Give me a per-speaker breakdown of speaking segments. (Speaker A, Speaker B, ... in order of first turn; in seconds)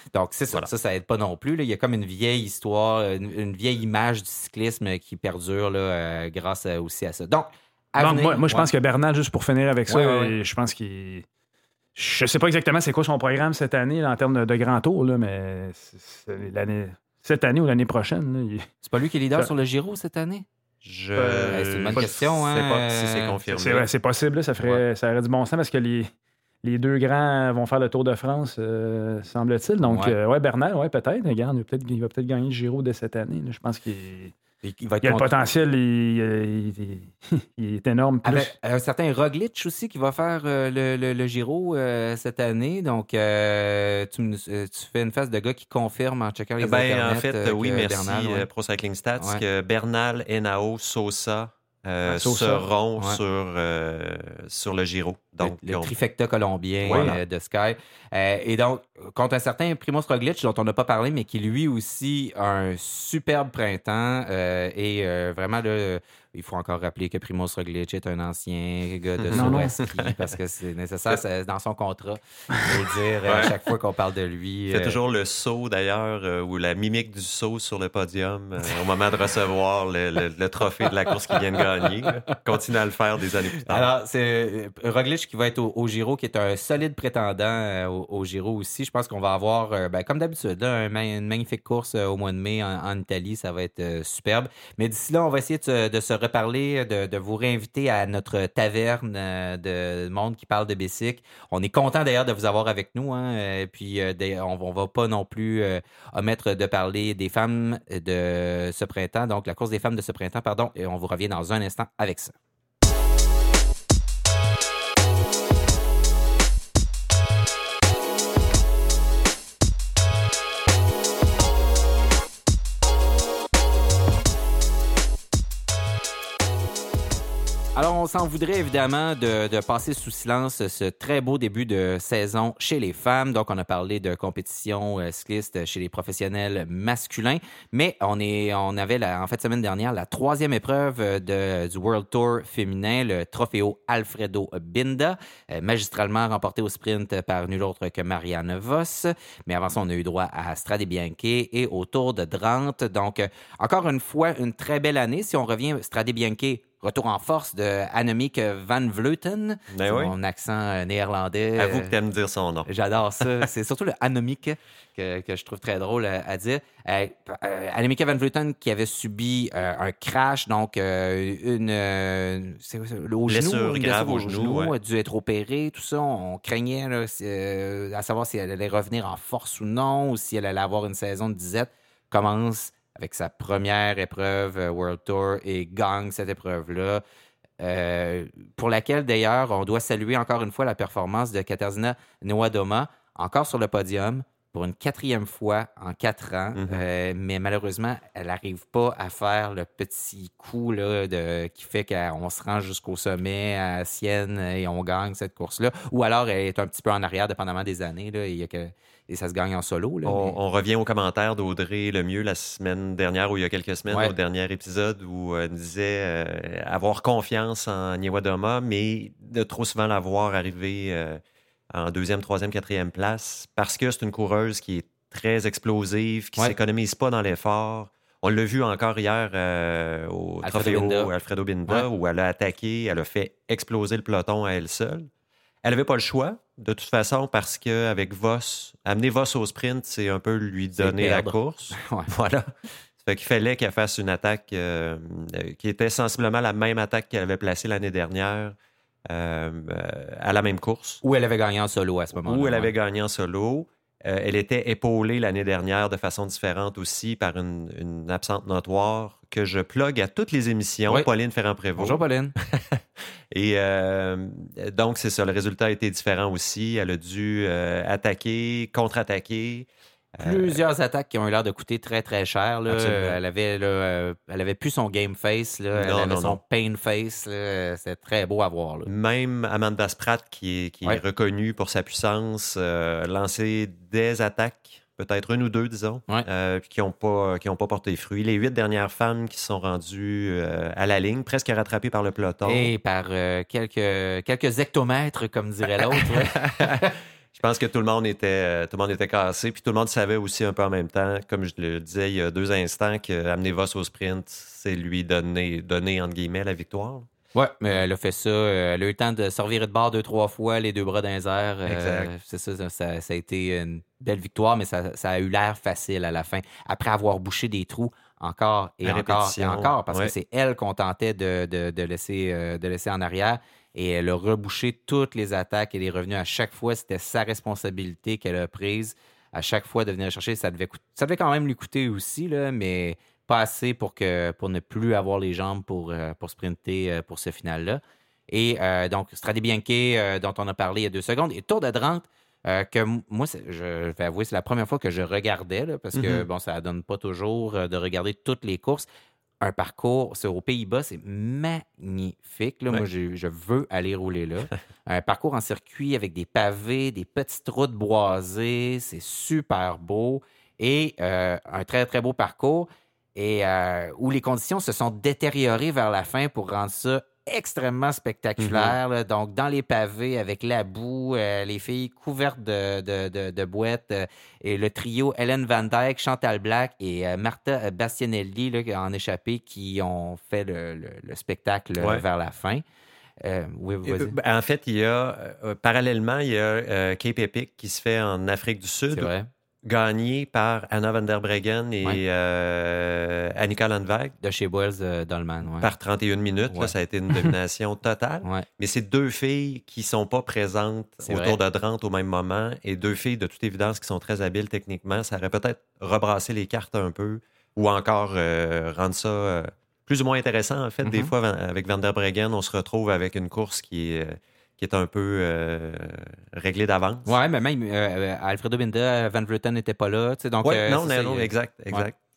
Speaker A: 0.1-8.7, 9.9-10.3, 18.8-20.4, 21.5-23.4, 29.8-30.1, 34.6-35.3, 38.2-48.5, 49.2-49.4, 55.4-75.0, 81.6-82.3, 83.6-112.3, 127.7-161.9, 162.7-187.0, 187.6-210.4, 230.4-231.1, 240.8-242.1, 251.0-252.7, 261.8-262.3, 270.2-278.9, 292.4-296.9, 307.3-348.9, 349.4-382.6, 383.2-384.1, 388.9-389.3, 394.2-395.7, 396.5-397.3, 401.0-401.4, 410.8-411.1, 417.1-421.9
Speaker B: 8.0-11.2, 11.9-18.6, 21.1-22.1, 23.5-26.1, 26.6-34.3, 35.0-38.5, 52.1-52.6, 56.9-57.2, 69.3-69.8
Speaker C: 20.8-23.9, 46.6-55.9, 56.8-57.2, 69.2-70.2, 73.2-73.5, 74.7-83.9, 159.7-160.1, 161.6-162.7, 173.3-174.7, 196.5-196.8, 210.0-221.2, 221.7-235.1, 235.6-242.5, 243.0-248.5, 249.1-251.0, 252.2-270.6, 272.7-273.2, 275.8-276.4, 278.9-292.7, 295.9-307.1, 311.6-312.1, 318.8-320.1, 345.9-346.2, 368.4-368.8, 381.8-382.0, 383.8-389.1, 389.6-394.1, 395.6-417.1, 420.4-421.9